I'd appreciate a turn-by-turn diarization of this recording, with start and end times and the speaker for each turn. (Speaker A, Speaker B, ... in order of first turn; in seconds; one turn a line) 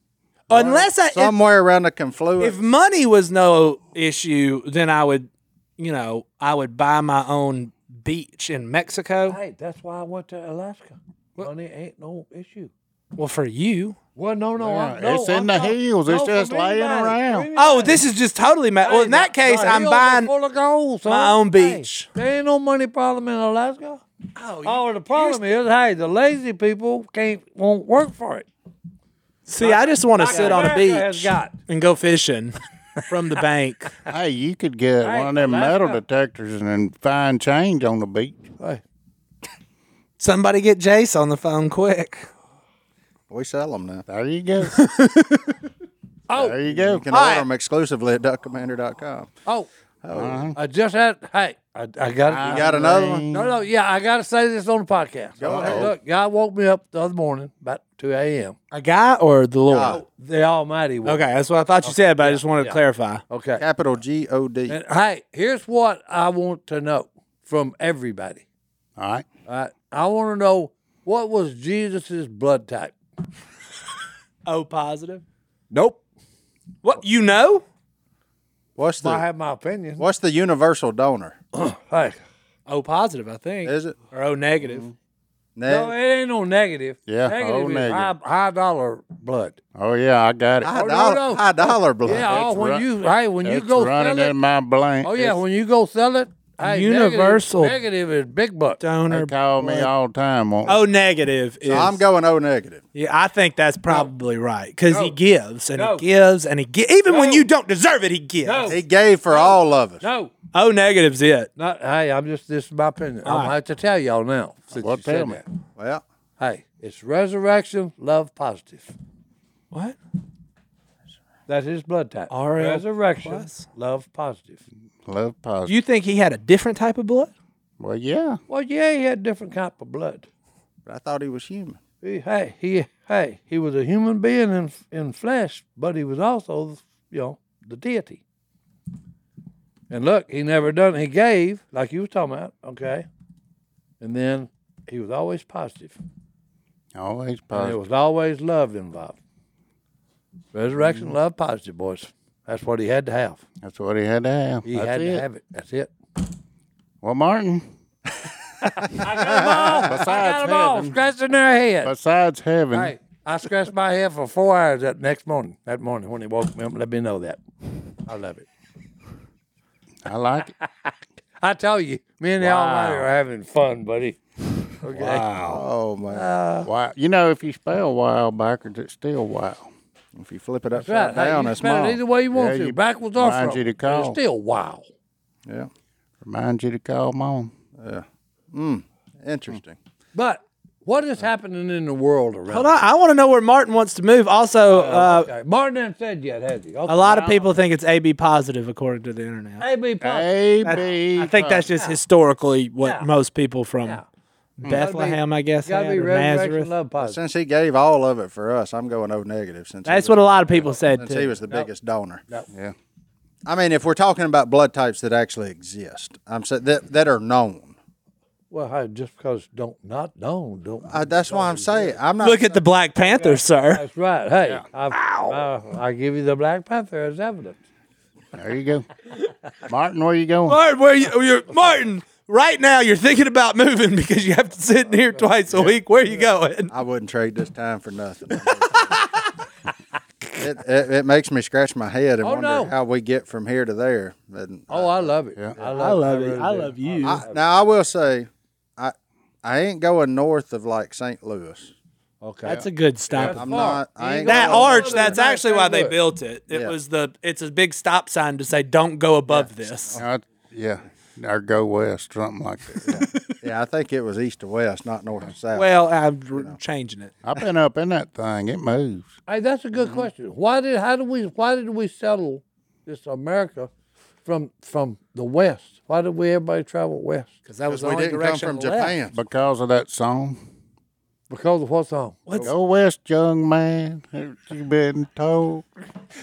Speaker A: 0.5-1.4
Speaker B: 0.5-2.7
Speaker A: 2.4-9.4
Speaker C: 9.3-12.7
Speaker A: 13.2-14.0
Speaker C: 14.2-18.0
Speaker D: 14.6-17.5
Speaker A: 17.6-20.3
Speaker C: 18.8-24.0
Speaker A: 21.1-22.1
Speaker A: 24.4-25.5
Speaker C: 24.6-28.5
Speaker A: 29.5-34.0
Speaker C: 29.6-31.6
Speaker D: 34.0-38.5
Speaker C: 35.0-36.0
Speaker A: 40.2-42.3
Speaker B: 43.3-44.0
Speaker D: 44.1-44.8
Speaker A: 44.6-45.6
Speaker C: 46.3-47.0
Speaker D: 46.4-47.0
Speaker B: 46.8-49.3
Speaker A: 47.1-47.5
Speaker B: 50.0-50.5
Speaker D: 50.1-50.6
Speaker C: 50.6-58.6
Speaker D: 52.3-53.5
Speaker B: 52.4-53.3
Speaker B: 55.4-55.9
Speaker D: 55.5-55.9
Speaker A: 58.7-60.0
Speaker B: 59.7-60.0
Speaker C: 59.8-61.2
Speaker A: 61.0-63.2
Speaker C: 61.8-63.6
Speaker B: 63.6-64.8
Speaker C: 64.7-68.5
Speaker D: 69.0-69.3
Speaker C: 69.5-73.0
Speaker A: 74.5-75.2
Speaker C: 75.7-76.0
Speaker A: 76.8-77.6
Speaker B: 78.8-79.2
Speaker C: 79.0-80.0
Speaker B: 80.0-81.4
Speaker C: 81.5-82.2
Speaker A: 82.7-84.8
Speaker B: 83.7-84.0
Speaker D: 84.6-84.9
Speaker B: 85.6-85.9
Speaker C: 85.7-89.6
Speaker D: 87.1-88.1
Speaker D: 89.8-90.7
Speaker B: 90.6-92.4
Speaker C: 90.7-94.3
Speaker D: 92.1-92.9
Speaker D: 93.4-95.4
Speaker C: 95.0-98.8
Speaker A: 96.6-97.8
Speaker A: 98.8-99.9
Speaker D: 99.1-100.8
Speaker A: 100.7-102.0
Speaker B: 101.7-102.8
Speaker A: 103.0-108.8
Speaker C: 104.9-105.2
Speaker C: 105.8-106.0
Speaker C: 107.1-107.5
Speaker C: 108.4-110.3
Speaker B: 108.7-110.0
Speaker A: 110.5-111.5
Speaker C: 111.6-115.4
Speaker A: 113.2-113.5
Speaker D: 114.8-115.4
Speaker B: 115.8-116.0
Speaker C: 116.4-118.9
Speaker C: 121.5-124.6
Speaker A: 122.3-123.6
Speaker D: 125.0-125.8
Speaker A: 125.7-127.3
Speaker D: 127.8-128.4
Speaker C: 128.5-130.3
Speaker B: 130.9-131.8
Speaker C: 132.0-138.2
Speaker C: 139.9-143.1
Speaker C: 144.0-146.0
Speaker D: 146.9-147.8
Speaker C: 147.5-149.2
Speaker C: 150.5-153.4
Speaker D: 150.8-151.1
Speaker D: 153.6-155.2
Speaker C: 154.7-155.9
Speaker D: 157.0-157.7
Speaker C: 158.7-161.9
Speaker B: 158.9-159.9
Speaker D: 159.9-161.0
Speaker D: 161.8-162.9
Speaker C: 162.7-167.4
Speaker C: 168.1-168.5
Speaker D: 170.1-170.5
Speaker C: 170.6-174.2
Speaker D: 172.4-173.1
Speaker C: 174.8-176.7
Speaker D: 174.9-176.0
Speaker B: 175.5-176.3
Speaker D: 176.6-179.7
Speaker B: 180.2-182.0
Speaker C: 180.7-184.8
Speaker D: 182.3-184.2
Speaker D: 186.2-187.5
Speaker B: 187.8-189.8
Speaker C: 190.1-192.8
Speaker A: 192.5-195.3
Speaker C: 194.7-197.3
Speaker A: 196.9-199.7
Speaker D: 197.1-197.3
Speaker C: 199.6-200.9
Speaker D: 200.0-201.7
Speaker A: 200.6-204.0
Speaker C: 201.7-202.0
Speaker C: 202.8-203.1
Speaker A: 204.6-206.7
Speaker C: 204.7-207.2
Speaker B: 207.0-212.2
Speaker A: 209.8-211.3
Speaker B: 213.4-217.8
Speaker C: 218.5-222.0
Speaker B: 220.9-222.6
Speaker A: 222.2-223.8
Speaker C: 223.0-227.6
Speaker A: 224.9-225.4
Speaker D: 228.3-228.9
Speaker D: 229.7-230.6
Speaker A: 230.5-236.7
Speaker B: 236.7-239.0
Speaker B: 240.4-245.9
Speaker C: 242.2-242.8
Speaker C: 244.7-247.4
Speaker A: 245.7-247.2
Speaker B: 247.0-251.7
Speaker C: 252.2-252.6
Speaker A: 252.4-253.5
Speaker C: 253.1-256.0
Speaker B: 253.2-255.2
Speaker A: 254.2-259.9
Speaker B: 256.5-256.8
Speaker B: 259.3-260.0
Speaker D: 259.9-262.9
Speaker B: 262.9-265.7
Speaker A: 262.9-263.2
Speaker A: 265.5-267.1
Speaker D: 267.2-269.1
Speaker C: 269.3-273.7
Speaker B: 269.8-270.1
Speaker C: 274.2-277.3
Speaker A: 277.5-279.0
Speaker B: 277.7-279.2
Speaker D: 279.1-280.4
Speaker C: 281.3-282.5
Speaker D: 282.4-285.6